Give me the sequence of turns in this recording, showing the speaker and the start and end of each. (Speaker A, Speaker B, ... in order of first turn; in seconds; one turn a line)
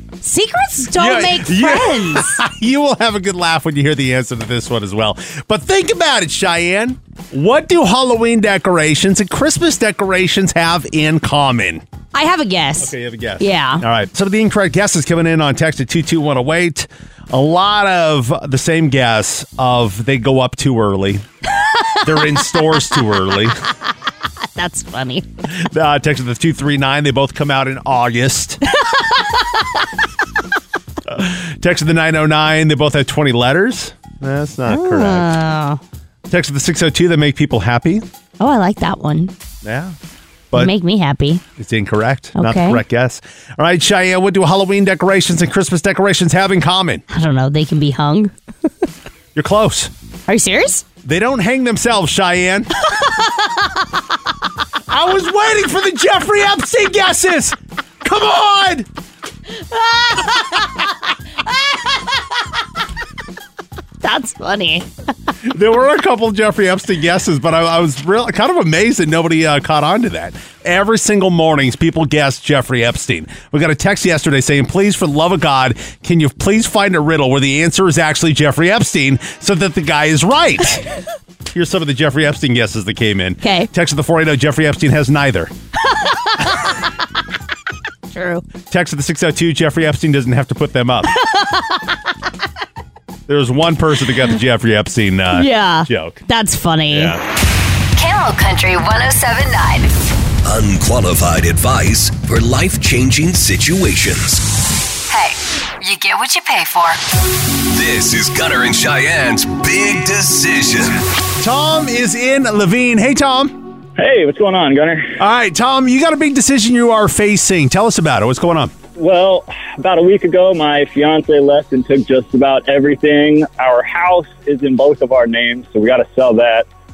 Speaker A: 0.2-2.4
Speaker B: 0.9-11.8
Speaker A: 12.1-13.8
Speaker B: 12.8-21.2
Speaker A: 21.8-22.8
Speaker B: 22.0-23.6
Speaker A: 24.6-25.2
Speaker B: 25.5-28.6
Speaker A: 28.7-29.3
Speaker B: 31.1-35.3
Speaker A: 34.7-35.8
Speaker B: 36.3-38.0
Speaker A: 38.4-39.3
Speaker B: 39.6-40.0
Speaker A: 40.5-41.4
Speaker B: 41.6-47.0
Speaker A: 42.3-42.8
Speaker A: 47.1-48.3
Speaker B: 49.3-49.9
Speaker A: 50.3-50.8
Speaker B: 51.0-52.7
Speaker A: 52.9-53.6
Speaker B: 54.9-58.9
Speaker A: 59.7-60.7
Speaker A: 64.0-64.9
Speaker B: 65.4-80.8
Speaker B: 81.5-85.5
Speaker A: 83.4-83.7
Speaker A: 86.1-86.7
Speaker A: 88.1-88.4
Speaker B: 88.7-91.1
Speaker A: 91.1-91.8
Speaker B: 93.3-96.2
Speaker A: 95.3-97.2
Speaker B: 96.9-97.2
Speaker C: 98.0-99.9
Speaker D: 100.4-104.4
Speaker C: 105.1-107.0
Speaker D: 107.6-111.0
Speaker B: 111.4-113.6
Speaker E: 114.0-115.2
Speaker B: 115.2-118.7
Speaker E: 119.0-126.7